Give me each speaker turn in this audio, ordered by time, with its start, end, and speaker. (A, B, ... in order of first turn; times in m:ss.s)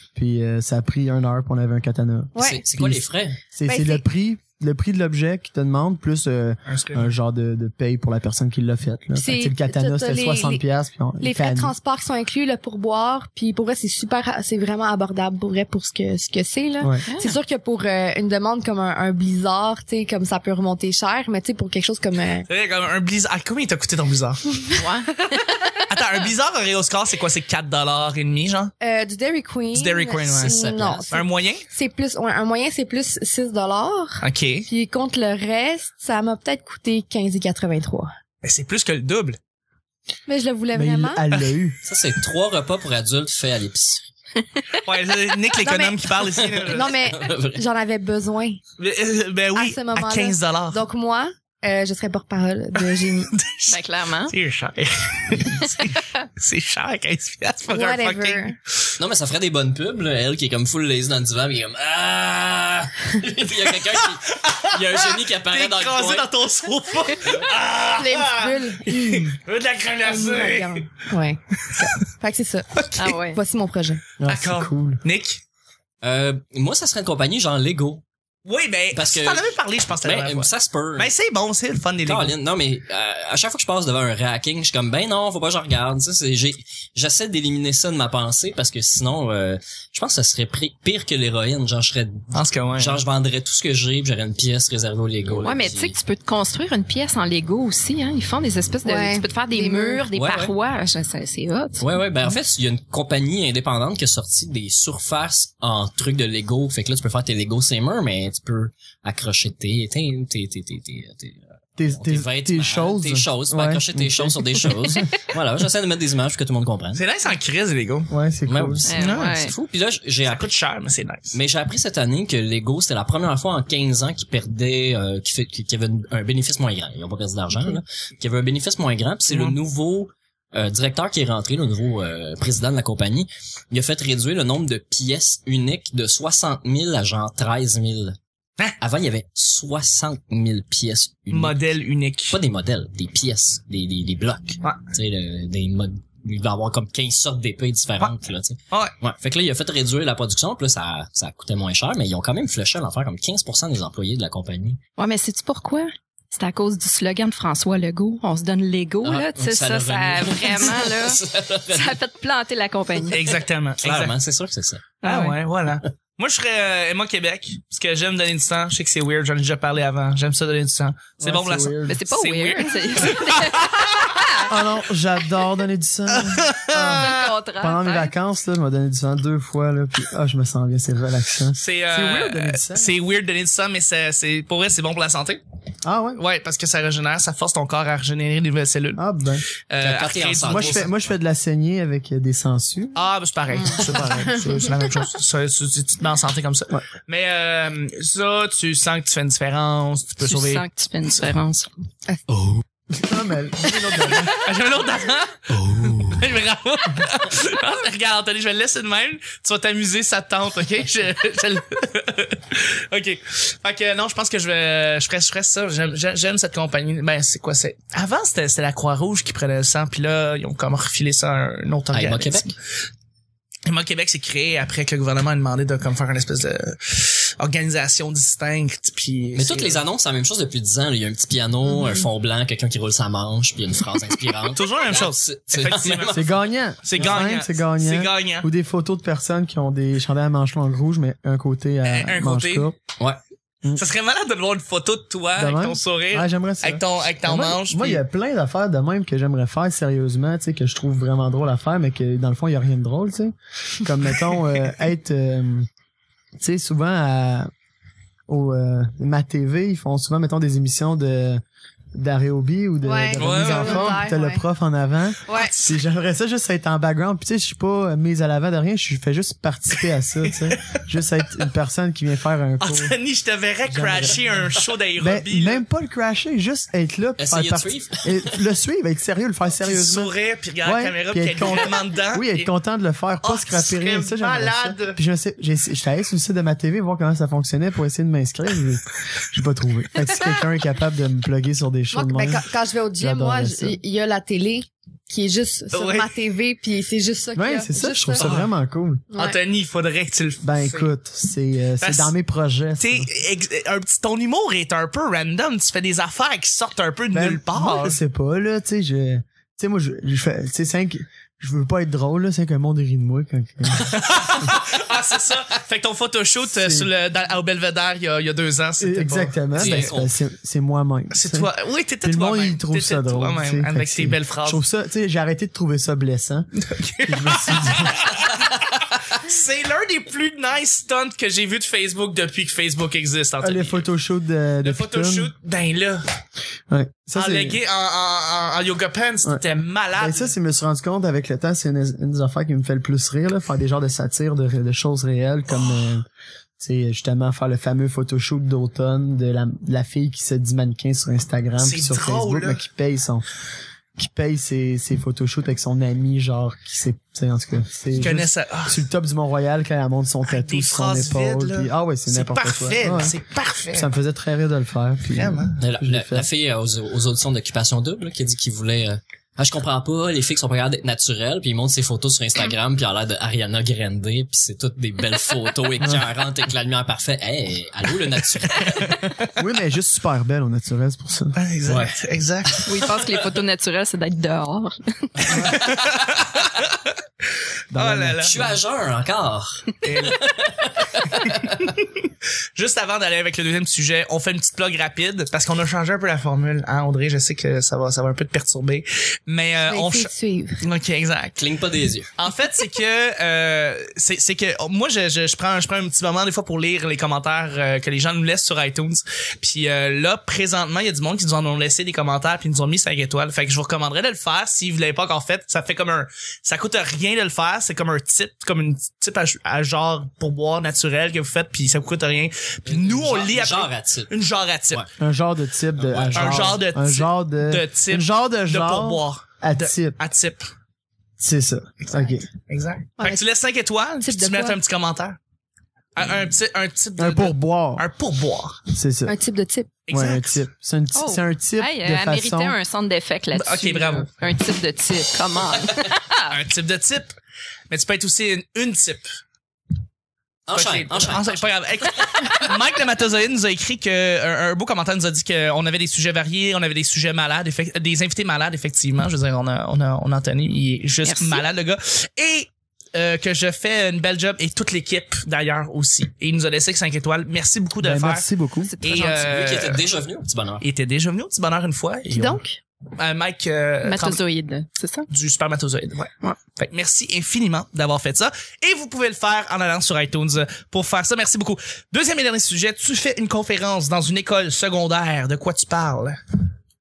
0:00.2-0:11.8 A
0:02.4-0:02.6 B
0:02.4-0:03.4 C
0:03.7-0:04.0 B
0:06.7-0:07.1 D
0:09.2-0:10.6 B
0:11.2-0:22.5 B
0:17.0-0:17.4 E
0:22.5-0:24.4 D
0:24.6-0:24.8 B
0:24.8-0:25.8 E
0:25.9-0:28.7 D
0:28.8-0:38.1 B
0:29.7-0:30.6 D
0:30.3-0:31.1 C
0:31.1-0:31.7 D
0:34.2-0:34.7 D
0:38.4-0:39.4 D
0:40.3-0:41.3 B
0:40.7-0:41.8 A
0:41.8-0:44.0 C
0:44.8-0:47.0 D
0:45.6-0:48.6 B
0:46.4-0:47.6 C
0:48.8-0:50.8 D
0:49.6-0:53.3 B
0:52.8-0:58.9 D
0:53.7-0:54.3 E
0:55.6-0:56.2 E
0:57.7-0:58.6 B
0:59.0-1:06.4 C
1:03.7-1:11.0 D
1:07.8-1:09.4 B
1:10.0-1:14.0 B
1:11.6-1:12.0 D
1:12.8-1:13.2 D
1:13.0-1:13.4 E
1:14.2-1:15.0 A
1:14.2-1:15.4 D
1:16.0-1:18.0 C
1:18.5-1:22.3 D
1:18.9-1:21.1 C
1:22.0-1:36.0 C
1:32.3-1:33.0 D
1:35.4-1:41.9 E
1:38.8-1:40.0 B
1:40.1-1:40.5 C
1:41.8-1:57.0 C
1:51.8-1:55.1 A
1:57.0-1:58.1 D
1:58.1-1:58.9 A
1:58.5-2:00.5 C
1:58.8-1:59.5 E
1:59.0-1:59.4 D
2:00.3-2:01.4 D
2:01.3-2:18.2 C
2:09.3-2:09.6 D
2:18.8-2:21.6 C
2:21.3-2:22.4 D
2:22.3-2:34.8 C
2:35.0-2:43.2 E
2:39.0-2:42.0 C
2:43.1-2:45.0 C
2:43.1-2:44.1 D
2:45.0-2:45.4 E
2:45.0-2:54.3 D
2:51.2-2:52.0 A
2:51.9-2:54.5 E
2:54.4-3:02.9 A
2:56.1-2:57.3 D
2:56.8-2:58.1 E
3:01.6-3:05.4 D
3:05.8-3:06.2 A
3:06.2-3:09.0 D
3:09.0-3:09.4 A
3:09.7-3:10.9 D
3:09.8-3:11.1 C
3:10.5-3:13.1 A
3:13.0-3:20.6 D
3:13.9-3:14.4 A
3:20.2-3:21.7 E
3:22.1-3:22.5 B
3:22.9-3:24.4 A
3:24.0-3:42.6 D
3:41.9-3:42.6 C
3:43.7-3:49.8 D
3:49.4-3:56.4 C
3:54.5-3:56.3 D
3:56.1-4:02.8 A
3:56.8-3:58.5 D
3:57.0-3:57.2 C
4:01.8-4:02.7 D
4:03.7-4:08.0 D
4:05.4-4:15.7 A
4:16.4-4:17.5 A
4:18.3-4:21.4 A
4:21.9-4:33.0 A
4:22.8-4:24.4 B
4:23.2-4:24.0 D
4:25.3-4:25.8 D
4:30.2-4:30.8 D
4:32.6-4:35.6 D
4:33.7-4:34.4 A
4:35.0-4:52.4 A
4:37.2-4:38.4 C
4:39.6-4:42.5 D
4:43.2-4:45.0 D
4:51.9-4:58.4 B
4:53.0-4:53.8 A
4:55.7-4:56.1 D
4:57.4-4:59.0 A
4:58.2-4:58.5 D
4:59.1-4:59.4 B
4:59.1-5:00.9 D
5:00.4-5:03.1 A
5:01.8-5:02.1 D
5:02.8-5:08.0 D
5:07.1-5:13.9 A
5:13.7-5:19.9 D
5:16.5-5:16.9 A
5:18.8-5:21.5 A
5:19.5-5:20.1 C
5:21.1-5:24.6 D
5:22.0-5:26.5 A
5:26.6-5:33.9 D
5:27.0-5:28.0 A
5:33.4-5:35.3 A
5:34.6-5:36.0 D
5:36.7-5:37.6 A
5:37.2-5:40.3 D
5:40.0-5:46.1 A
5:45.5-5:45.9 D
5:46.6-5:53.3 A
5:51.6-5:52.6 D
5:54.0-6:03.2 A
5:57.9-5:58.8 D
6:00.2-6:03.9 D
6:03.7-6:06.3 A
6:05.1-6:05.6 D
6:05.6-6:19.1 C
6:18.8-6:19.1 D
6:19.4-6:21.4 A
6:21.3-6:22.7 D
6:21.7-6:22.0 C
6:22.5-6:23.3 C
6:22.7-6:25.5 E
6:25.3-6:27.0 D
6:27.7-6:28.5 A
6:27.8-6:28.4 D
6:28.2-6:31.6 C
6:29.8-6:30.3 D
6:31.0-6:41.4 D
6:39.7-6:40.6 B
6:41.4-6:42.1 C
6:42.2-7:04.8 D
7:02.7-7:04.1 C
7:05.0-7:10.0 A
7:05.8-7:06.5 C
7:06.1-7:10.5 D
7:11.2-7:12.3 A
7:11.9-7:15.2 D
7:14.0-7:14.6 B
7:16.0-7:18.6 D
7:17.0-7:17.8 A
7:18.7-7:19.2 A
7:19.1-7:19.7 B
7:19.9-7:20.4 D
7:19.9-7:22.6 A
7:20.9-7:26.4 E
7:23.3-7:24.1 D
7:26.3-7:27.2 D
7:27.7-7:29.2 D
7:30.5-7:32.4 C
7:30.5-7:48.3 D
7:41.0-7:41.4 E
7:47.8-7:48.7 A
7:48.6-7:49.3 E
7:48.8-7:49.8 D
7:49.1-7:50.6 C
7:50.6-7:52.4 D
7:52.1-7:52.6 B
7:53.0-7:54.2 D
7:53.8-7:55.1 E
7:55.1-8:06.2 D